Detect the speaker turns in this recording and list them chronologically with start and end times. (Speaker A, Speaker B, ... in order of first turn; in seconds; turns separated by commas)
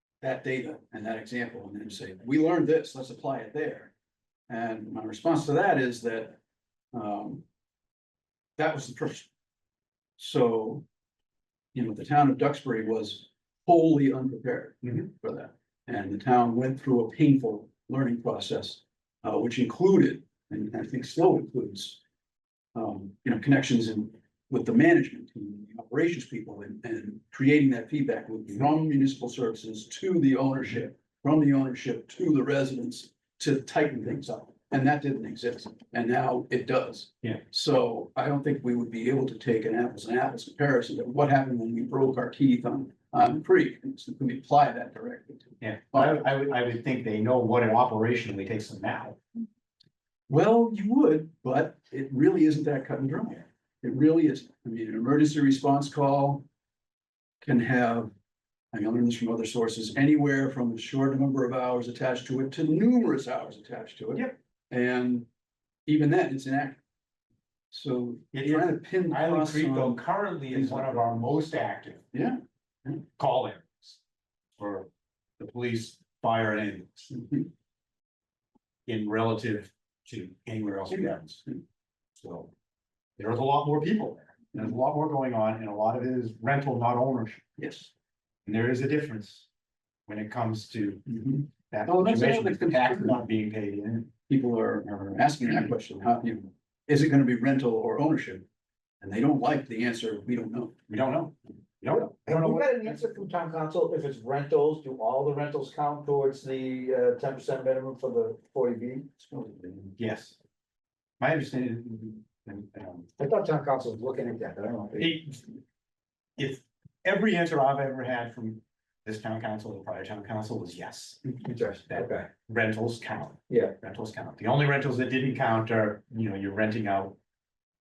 Speaker A: 0.2-3.9, Speaker A: 4.5-6.4, Speaker A: 6.9-7.4, Speaker A: 8.6-9.3, Speaker A: 10.2-10.8, Speaker A: 11.7-22.0, Speaker A: 22.7-46.2, Speaker B: 45.6-49.2, Speaker A: 50.3-56.5, Speaker A: 57.4-58.1, Speaker A: 58.7-65.3, Speaker A: 65.9-66.8, Speaker A: 67.7-71.1, Speaker B: 68.3-72.0, Speaker A: 72.1-73.0, Speaker B: 73.2-74.0, Speaker B: 74.6-77.1, Speaker A: 77.1-77.5, Speaker B: 78.8-81.4, Speaker A: 80.9-81.6, Speaker B: 82.2-82.5, Speaker B: 83.2-87.4, Speaker A: 87.6-87.9, Speaker B: 88.5-89.5, Speaker B: 90.1-91.0, Speaker A: 91.1-93.2, Speaker B: 91.7-94.1, Speaker A: 94.3-98.5, Speaker A: 99.0-100.8, Speaker B: 100.9-102.6, Speaker C: 102.1-109.1, Speaker A: 109.2-109.9, Speaker B: 110.0-110.3, Speaker B: 111.2-113.1, Speaker C: 113.2-115.1, Speaker B: 115.0-115.6, Speaker B: 116.4-127.2, Speaker C: 121.4-122.3